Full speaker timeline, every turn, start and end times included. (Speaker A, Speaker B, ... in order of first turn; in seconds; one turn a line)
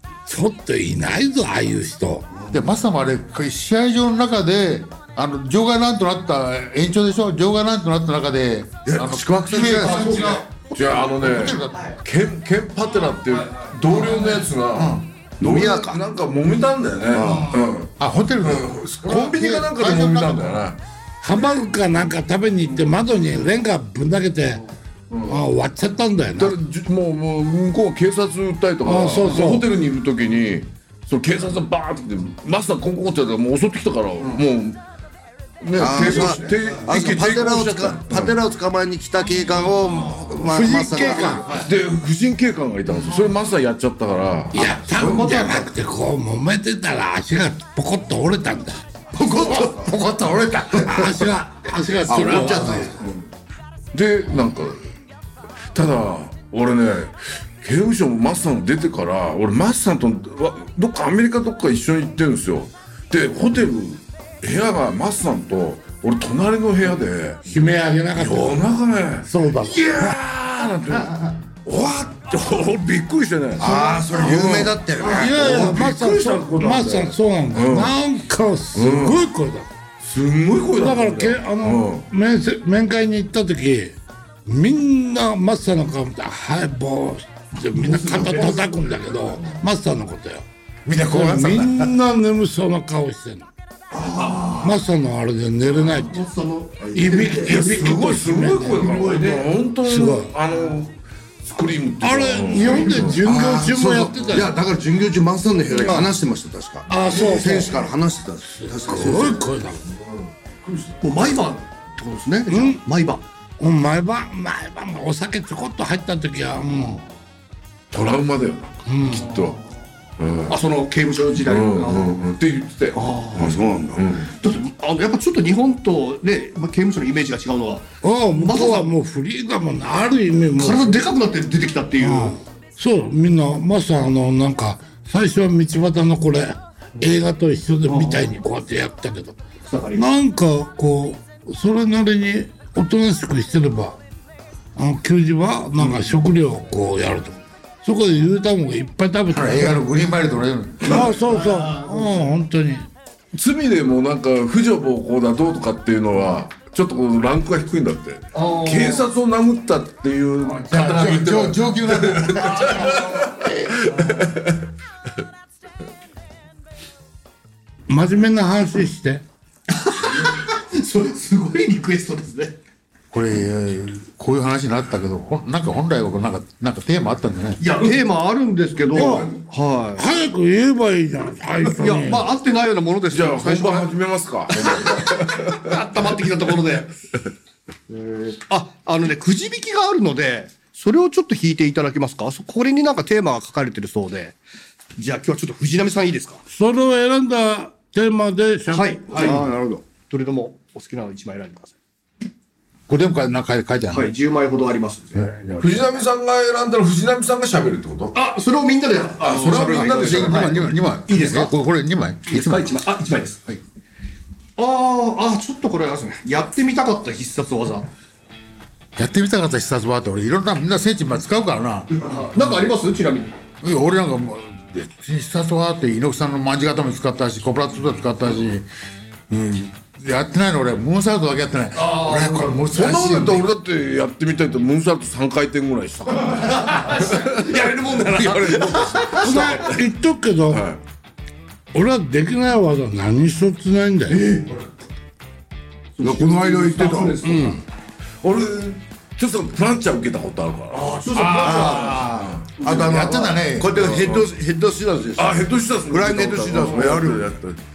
Speaker A: 0.2-2.2
Speaker B: 2.5-11.9
Speaker C: 8.8-10.4
Speaker D: 10.0-10.4
Speaker E: 10.7-20.8
Speaker B: 14.7-15.0
Speaker C: 15.4-16.0
Speaker C: 17.1-17.6
Speaker B: 18.0-20.6
Speaker A: 21.2-24.6
Speaker E: 25.1-25.4
Speaker A: 25.3-26.6
Speaker E: 26.4-34.8
Speaker A: 28.8-29.7
Speaker E: 35.6-38.4
Speaker C: 35.8-41.6
Speaker A: 40.5-41.6
Speaker E: 41.5-45.4
Speaker A: 44.5-48.8
Speaker C: 49.1-50.0
Speaker B: 49.2-51.2
Speaker A: 50.8-53.0
Speaker C: 52.0-53.2
Speaker E: 53.9-54.8
Speaker E: 55.7-67.4
Speaker A: 67.5-68.6
Speaker E: 68.2-74.8
Speaker A: 69.2-70.1
Speaker C: 73.6-76.0
Speaker D: 75.0-76.8
Speaker A: 75.0-79.7
Speaker E: 75.3-76.9
Speaker E: 77.5-78.0
Speaker E: 78.7-79.2
Speaker E: 80.0-82.0
Speaker A: 80.8-90.5
Speaker D: 87.8-88.7
Speaker B: 90.8-91.9
Speaker A: 91.0-93.5
Speaker D: 94.0-94.6
Speaker C: 94.1-94.6
Speaker A: 94.6-96.3
Speaker D: 96.0-97.8
Speaker C: 96.8-97.5
Speaker A: 96.9-98.9
Speaker E: 97.4-103.2
Speaker D: 98.8-99.5
Speaker A: 99.8-100.3
Speaker A: 102.0-104.5
Speaker C: 103.2-109.4
Speaker D: 105.8-106.1
Speaker A: 106.9-107.8
Speaker A: 108.5-109.8
Speaker D: 111.0-113.2
Speaker A: 112.5-112.8
Speaker A: 113.6-117.0
Speaker E: 117.9-119.6
Speaker A: 118.8-119.4
Speaker D: 119.3-119.6
Speaker E: 120.2-120.6
Speaker D: 120.5-122.2
Speaker E: 121.4-123.0
Speaker D: 122.9-123.7
Speaker C: 123.3-124.1
Speaker E: 123.9-124.3
Speaker D: 124.3-128.9
Speaker A: 128.0-131.0
Speaker D: 130.6-132.4
Speaker A: 132.0-139.4
Speaker D: 137.9-138.3
Speaker D: 139.6-140.0
Speaker A: 139.9-144.0
Speaker A: 144.8-149.8
Speaker B: 149.3-151.2
Speaker A: 150.8-152.9
Speaker E: 153.3-164.5
Speaker D: 158.3-159.1
Speaker B: 160.6-163.2
Speaker A: 167.9-169.2
Speaker D: 169.7-172.6
Speaker B: 173.1-177.6
Speaker D: 177.6-180.2
Speaker A: 178.9-179.3
Speaker A: 179.9-182.3
Speaker D: 181.6-183.9
Speaker E: 183.1-186.0
Speaker D: 184.6-186.9
Speaker D: 187.9-194.4
Speaker D: 194.9-196.4
Speaker A: 196.5-199.3
Speaker D: 198.7-201.8
Speaker C: 199.1-199.8
Speaker B: 202.9-204.1
Speaker D: 203.9-205.2
Speaker B: 205.1-205.9
Speaker E: 205.6-208.2
Speaker D: 208.1-211.5
Speaker E: 209.2-210.7
Speaker B: 209.6-212.7
Speaker D: 212.2-213.6
Speaker D: 214.6-217.9
Speaker B: 218.9-221.9
Speaker D: 221.9-223.3
Speaker B: 223.6-228.7
Speaker B: 229.3-233.5
Speaker D: 231.8-232.6
Speaker E: 232.7-239.8
Speaker D: 236.3-239.7
Speaker A: 239.1-240.6
Speaker E: 240.5-240.8
Speaker A: 241.7-244.2
Speaker D: 244.1-244.7
Speaker D: 246.0-247.6
Speaker C: 246.0-247.2
Speaker A: 247.2-247.6
Speaker E: 248.2-252.5
Speaker D: 250.7-253.0
Speaker B: 251.1-253.8
Speaker C: 252.6-257.3
Speaker E: 253.7-254.3
Speaker E: 255.2-257.6